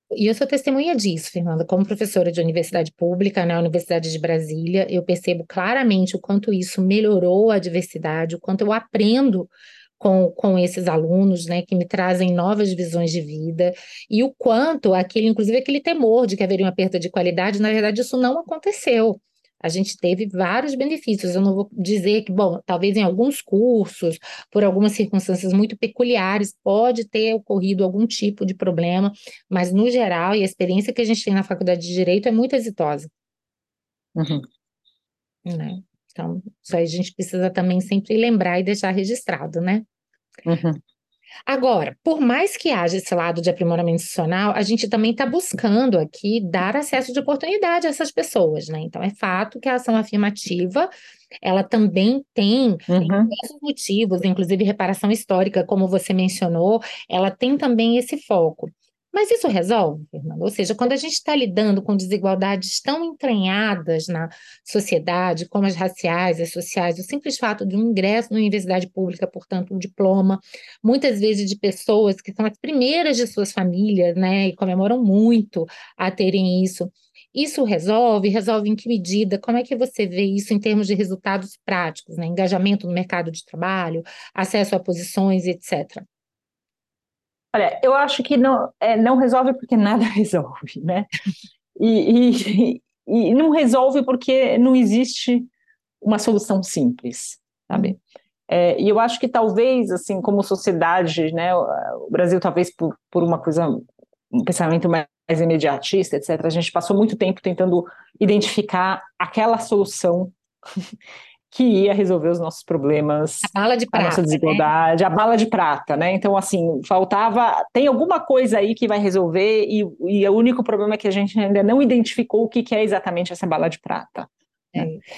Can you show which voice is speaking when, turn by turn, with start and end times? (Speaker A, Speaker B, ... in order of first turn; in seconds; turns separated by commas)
Speaker A: 0.1-33.1, Speaker B: 34.2-34.5, Speaker A: 35.5-39.9, Speaker B: 40.5-40.8, Speaker A: 41.5-50.9, Speaker A: 51.4-86.0, Speaker B: 52.9-53.3, Speaker B: 87.5-91.1, Speaker B: 91.8-95.5, Speaker B: 96.0-110.3, Speaker B: 111.5-124.9, Speaker A: 113.4-114.7, Speaker A: 124.7-125.0